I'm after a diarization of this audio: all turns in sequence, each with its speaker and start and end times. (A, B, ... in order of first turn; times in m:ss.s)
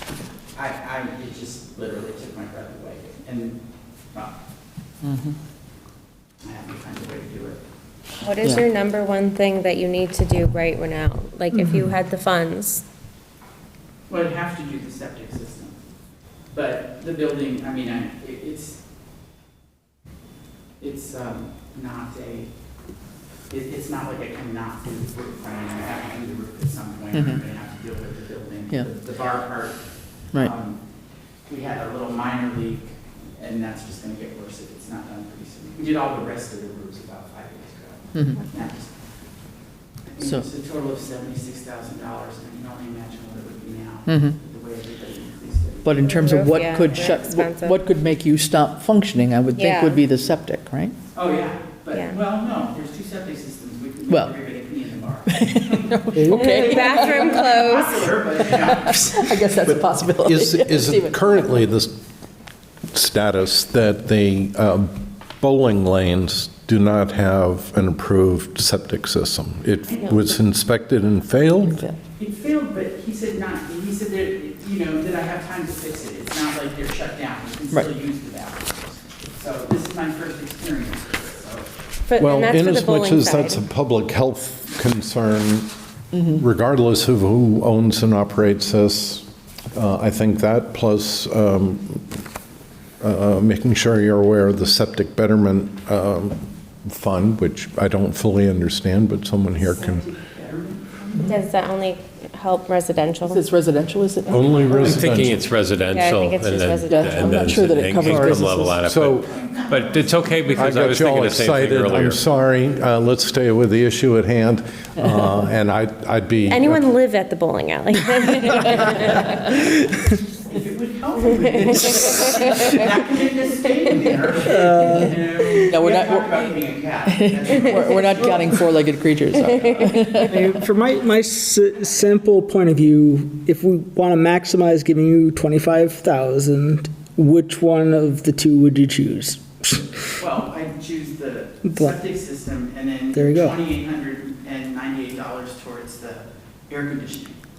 0:00.5-0:03.6 A
0:05.0-0:05.4 B
0:06.4-0:07.6 A
0:08.2-0:12.8 C
0:11.5-0:11.9 B
0:14.1-0:15.8 A
0:16.5-0:18.8 A
0:20.8-0:22.5 A
0:23.5-0:29.8 A
0:27.1-0:27.4 B
0:30.4-0:30.8 A
0:31.5-0:38.9 A
0:40.1-0:46.2 A
0:44.1-0:44.4 B
0:45.8-0:51.0 B
0:46.0-0:47.8 C
0:49.6-0:50.0 C
0:51.1-0:59.5 A
0:54.1-0:54.3 B
0:55.3-0:57.8 B
0:56.3-0:58.1 C
0:58.4-1:01.6 B
0:59.9-1:02.0 D
1:02.9-1:11.8 D
1:09.9-1:10.3 C
1:11.7-1:12.0 B
1:12.2-1:21.7 A
1:22.1-1:23.6 C
1:22.2-1:25.7 D
1:26.2-1:32.2 D
1:33.0-1:40.1 D
1:39.6-1:41.4 A
1:41.2-1:43.4 C
1:43.3-1:45.1 B
1:44.3-1:45.4 D
1:44.8-1:52.2 E
1:45.9-1:47.8 C
1:46.9-1:48.8 B
1:48.0-1:48.3 D
1:48.8-1:49.3 D
1:49.3-1:50.8 A
1:50.6-1:56.9 D
1:56.5-1:59.5 C
2:00.5-2:08.7 A
2:02.0-2:02.8 B
2:04.5-2:05.1 F
2:05.6-2:06.5 B
2:07.1-2:10.5 B
2:09.6-2:10.0 C
2:10.2-2:20.1 F
2:20.2-2:27.4 A
2:21.7-2:22.0 F
2:23.1-2:23.6 F